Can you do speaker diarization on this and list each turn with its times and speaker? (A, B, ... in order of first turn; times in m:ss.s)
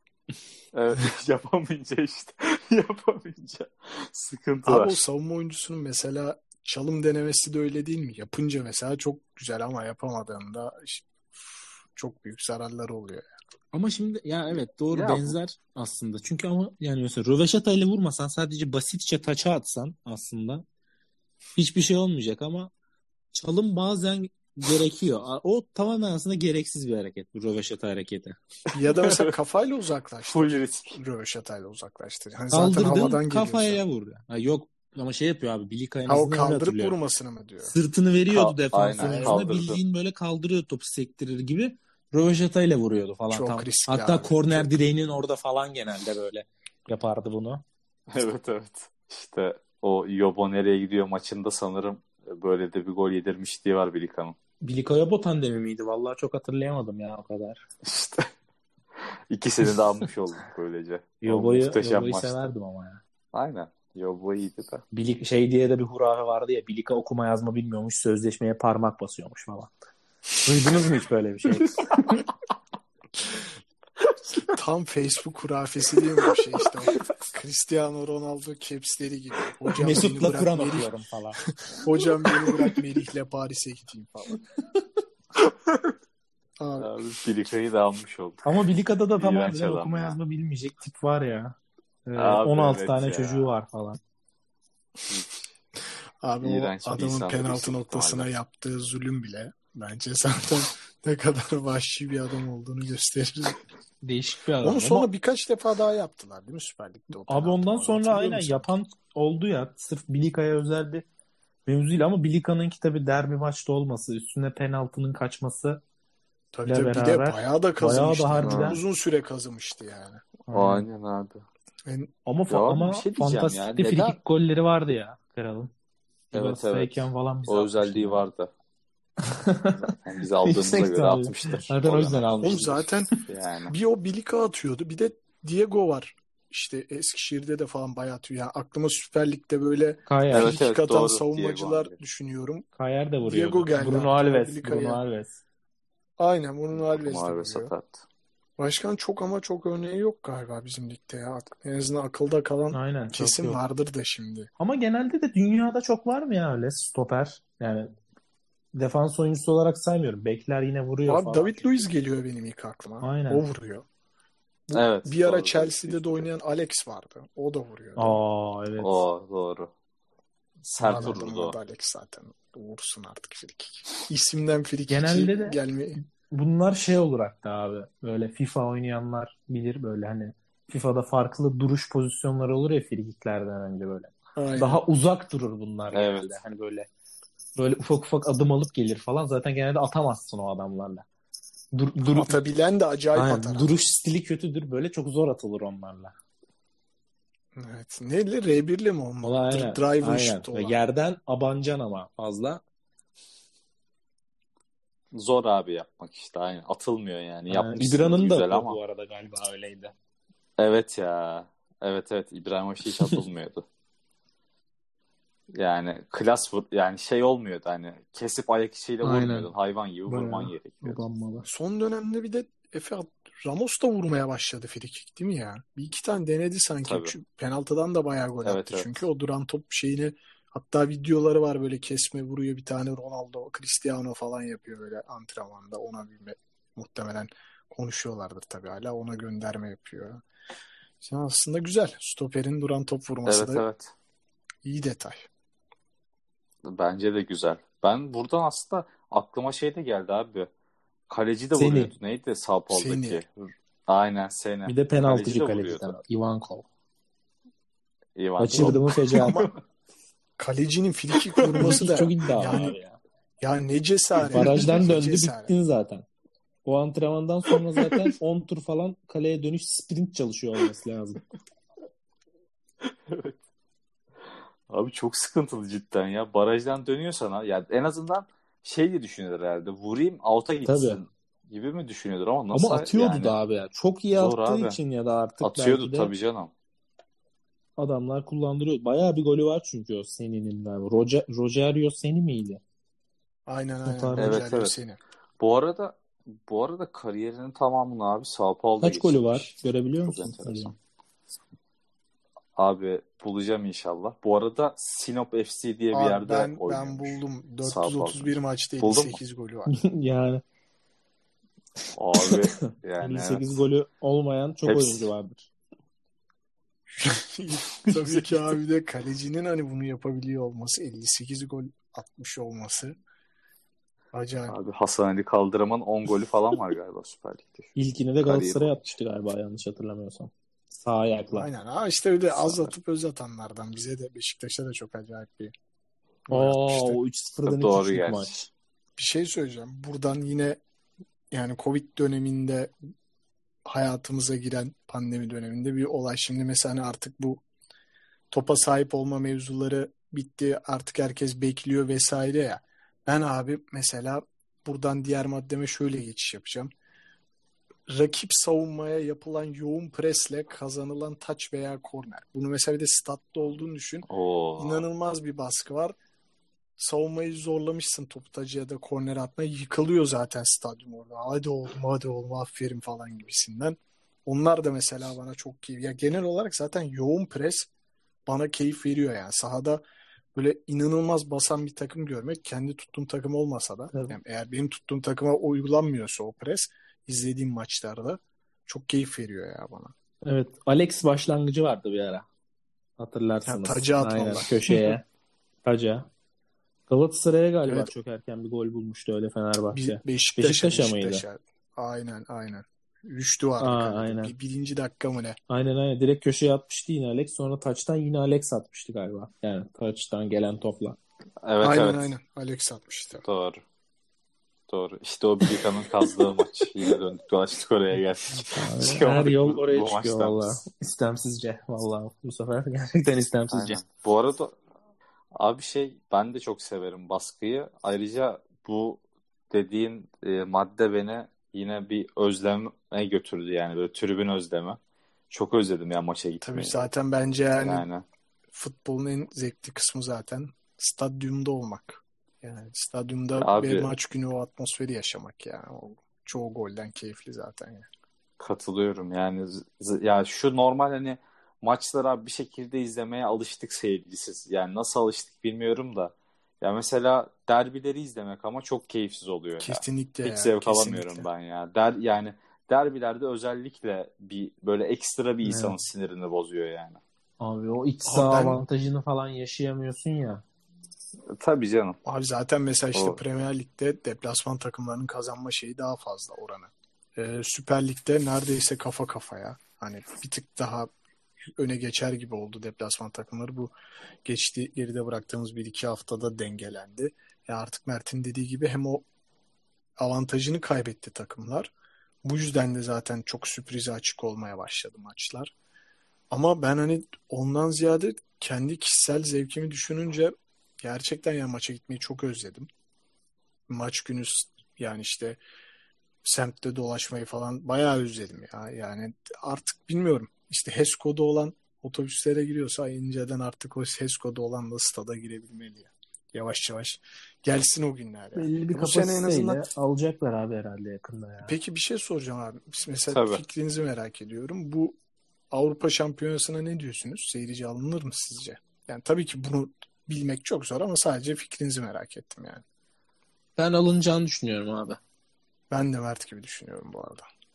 0:00.7-0:05.0 A
0:04.6-0:13.3 B
0:13.7-0:20.6 C
0:14.9-0:15.4 A
0:21.6-0:22.7 C
0:23.3-0:28.4 C
0:28.7-0:33.8 B
0:29.0-0:29.3 A
0:30.3-0:31.0 A
0:32.5-0:36.9 C
0:36.1-0:37.7 B
0:37.6-0:47.6 C
0:38.3-0:39.8 A
0:39.0-0:39.4 B
0:43.3-0:44.7 B
0:48.1-0:54.4 A
0:54.6-0:57.6 C
0:57.8-0:58.3 A
0:59.3-1:02.5 A
1:01.2-1:03.0 C
1:03.3-1:04.8 A
1:04.9-1:09.7 C
1:10.4-1:12.2 C
1:14.5-1:20.9 B
1:19.8-1:21.4 C
1:21.8-1:24.4 B
1:26.6-1:26.9 B
1:26.8-1:28.5 A
1:28.4-1:34.0 C
1:29.2-1:30.2 A
1:32.2-1:33.5 A
1:35.1-1:35.5 A
1:36.2-1:43.6 B
1:36.4-1:38.3 A
1:44.0-1:45.1 C
1:44.6-1:48.7 B
1:47.3-1:51.0 C
1:51.6-1:55.8 C
1:56.5-2:00.4 B
1:56.6-1:58.8 C
1:58.4-1:58.8 A
2:00.5-2:00.8 C
2:00.5-2:01.4 A
2:01.8-2:02.1 B
2:02.2-2:05.7 C
2:02.5-2:04.2 A
2:06.3-2:08.2 C
2:06.3-2:08.5 A
2:09.2-2:09.8 C
2:09.7-2:13.7 A
2:10.4-2:13.2 C
2:12.4-2:13.1 B
2:13.7-2:22.7 B
2:20.1-2:20.6 C
2:20.3-2:22.0 A
2:22.8-2:25.4 C
2:23.2-2:25.0 B
2:26.2-2:27.7 B
2:26.7-2:28.0 A
2:28.6-2:34.5 B
2:32.7-2:33.6 C
2:34.6-2:37.9 C
2:38.7-2:41.6 C
2:41.1-2:43.8 B
2:43.0-2:43.4 C
2:44.7-2:48.2 B
2:44.7-2:46.3 A
2:48.0-2:49.0 C
2:48.8-2:49.7 A
2:50.6-2:51.6 A
2:50.8-2:56.0 B
2:50.8-2:51.2 C
2:54.9-2:55.6 C
2:56.3-3:06.9 C
3:04.4-3:04.8 B
3:05.9-3:06.3 A
3:07.6-3:11.0 C
3:11.7-3:12.4 C
3:12.1-3:13.7 B
3:13.1-3:16.1 C
3:17.5-3:20.8 B
3:19.2-3:22.6 C
3:25.1-3:28.8 A
3:27.5-3:29.9 C
3:30.6-3:33.6 A
3:35.5-3:41.0 A
3:39.0-3:39.5 C
3:40.1-3:41.4 C
3:41.4-4:00.2 B
3:46.8-3:47.2 A
3:48.4-3:49.0 A
4:01.0-4:03.6 B
4:03.2-4:03.9 A
4:04.6-4:05.3 B
4:06.6-4:10.5 A
4:11.1-4:15.9 A
4:11.5-4:11.9 C
4:12.7-4:13.2 B
4:14.7-4:16.6 C
4:18.2-4:19.6 A
4:18.4-4:19.4 C
4:18.6-4:19.5 B
4:20.4-4:22.8 B
4:21.4-4:21.8 A
4:21.6-4:23.0 C
4:23.4-4:25.5 B
4:24.2-4:24.7 A
4:24.3-4:26.0 C
4:26.6-4:31.2 C
4:27.8-4:28.1 A
4:33.1-4:33.4 A
4:34.7-4:43.4 A
4:40.6-4:41.0 C
4:42.5-4:46.1 C
4:44.1-4:44.8 A
4:45.4-4:46.5 A
4:47.8-4:52.6 C
4:53.5-4:55.0 B
4:53.8-4:54.4 C
4:54.2-4:54.7 A
4:55.4-5:00.7 A
4:58.8-5:00.7 C
5:02.6-5:09.2 A
5:05.9-5:09.8 B
5:09.7-5:10.4 C
5:12.0-5:13.6 A
5:12.2-5:15.5 C
5:14.6-5:15.1 A
5:16.9-5:23.0 B
5:17.8-5:18.3 A
5:24.1-5:24.6 B
5:24.5-5:28.9 A
5:27.8-5:31.5 C
5:31.3-5:35.5 B
5:36.3-5:37.0 B
5:36.3-5:38.5 C
5:37.4-5:38.4 A
5:39.0-5:40.6 B
5:41.3-5:42.8 B
5:43.6-5:47.4 B
5:48.3-5:56.7 B
5:57.9-6:06.0 B
6:04.1-6:04.8 A
6:06.8-6:17.7 B
6:18.3-6:19.8 B
6:20.3-6:29.9 B
6:23.9-6:24.2 C
6:30.2-6:32.3 C
6:33.0-6:35.0 C
6:33.4-6:34.9 B
6:35.6-6:36.1 C
6:36.9-6:41.2 C
6:37.7-6:37.9 B
6:39.7-6:45.4 B
6:43.6-6:44.3 C
6:45.5-6:51.0 C
6:51.4-6:52.1 A
6:51.6-6:53.2 B
6:53.2-6:53.6 A
6:54.7-7:00.6 A
6:58.5-7:03.8 C
7:03.5-7:04.6 A
7:05.3-7:14.8 A
7:15.3-7:16.8 A
7:16.4-7:17.9 B
7:17.6-7:18.0 A
7:18.5-7:27.9 B
7:23.4-7:23.9 A
7:28.4-7:47.0 A
7:39.6-7:41.2 B
7:45.4-7:45.8 C
7:47.4-7:50.4 C
7:48.0-7:48.6 B
7:51.3-7:52.0 A
7:52.0-8:00.9 B
7:52.9-7:53.2 A
8:01.4-8:03.7 B
8:04.2-8:09.0 B
8:10.0-8:11.7 B
8:12.2-8:15.5 B
8:16.3-8:22.7 B
8:23.7-8:25.4 B
8:26.2-8:39.6 B
8:38.3-8:41.6 C
8:41.4-8:45.0 B
8:43.1-8:43.4 A
8:45.5-8:52.6 B
8:53.6-8:55.0 C
8:55.7-8:57.2 B